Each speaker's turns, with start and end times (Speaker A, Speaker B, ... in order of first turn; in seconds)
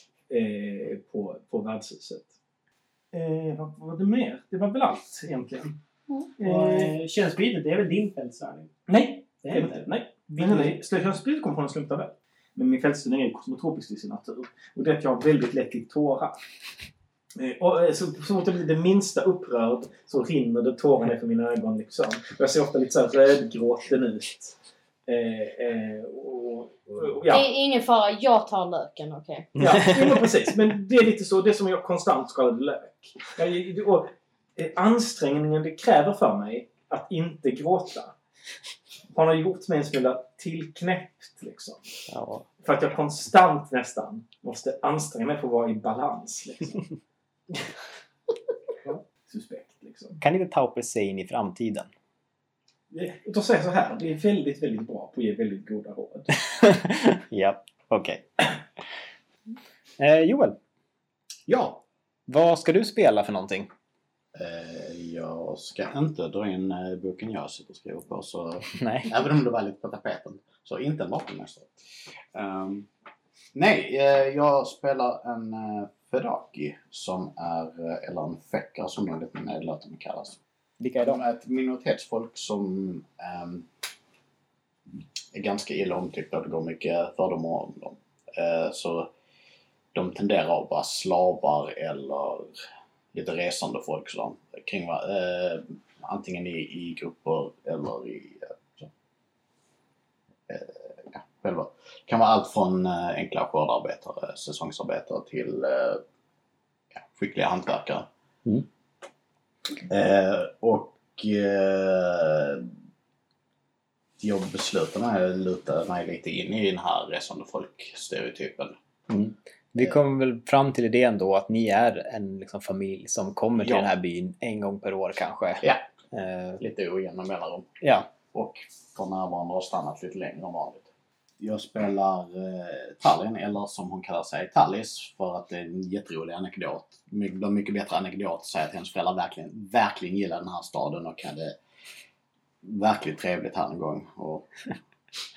Speaker A: 0.3-2.3, 3.1-5.8, 6.4-6.9, 8.9-16.4, 17.4-24.6, 25.1-27.5, 29.6-38.1, 39.1-41.9, 42.6-46.8, 48.8-50.2, 52.9-56.3
Speaker B: 6.4-8.7, 9.4-10.8
Speaker C: 27.3-29.6
Speaker D: 29.6-30.2, 42.1-42.5, 50.2-51.9, 56.5-58.4, 60.0-60.6, 62.3-63.7, 68.7-69.1, 80.8-81.2, 119.1-126.6, 127.8-128.1
Speaker E: 64.3-71.8, 72.3-72.9, 73.5-80.4, 81.0-83.7, 85.3-89.1, 89.9-92.6, 93.1-98.9, 100.5-106.0, 107.0-108.1, 109.7-112.7, 114.2-118.8, 123.6-123.9, 126.6-127.7, 128.2-130.9, 131.4-141.6, 142.6-144.5